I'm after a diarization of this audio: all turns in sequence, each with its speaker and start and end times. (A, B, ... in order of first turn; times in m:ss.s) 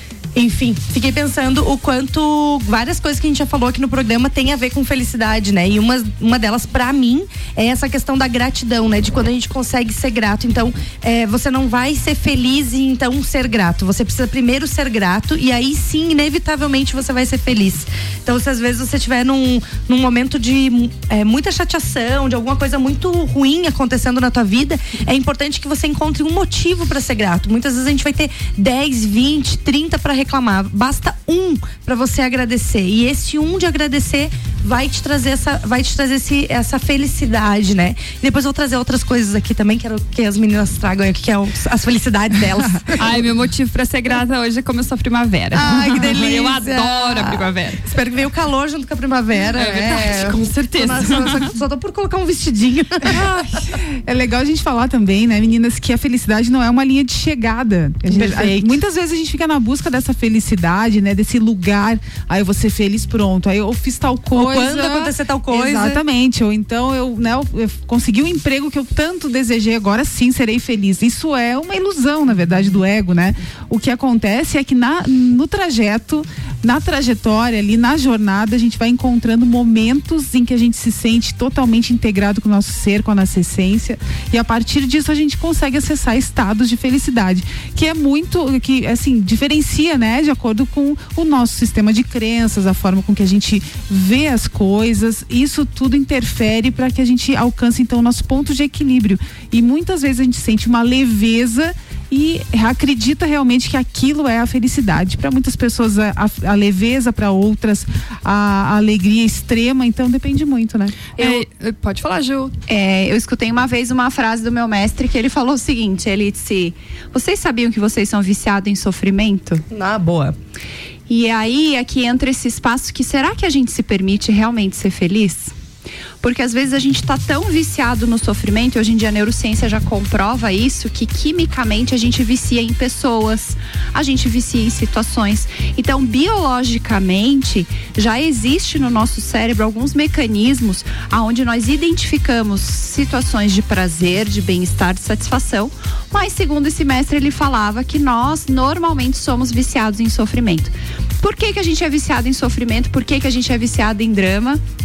0:00.3-0:43.2 A
0:43.0-0:47.8 B
0:45.5-0:53.2 A
0:49.5-0:51.5 B
0:53.1-0:53.6 B
0:54.0-1:51.4 C
0:58.1-0:58.8 A
1:04.3-1:06.0 A
1:51.2-1:52.5 B
1:52.7-1:59.6 D
1:59.7-2:00.3 A
2:01.1-2:05.5 D
2:06.2-2:34.6 D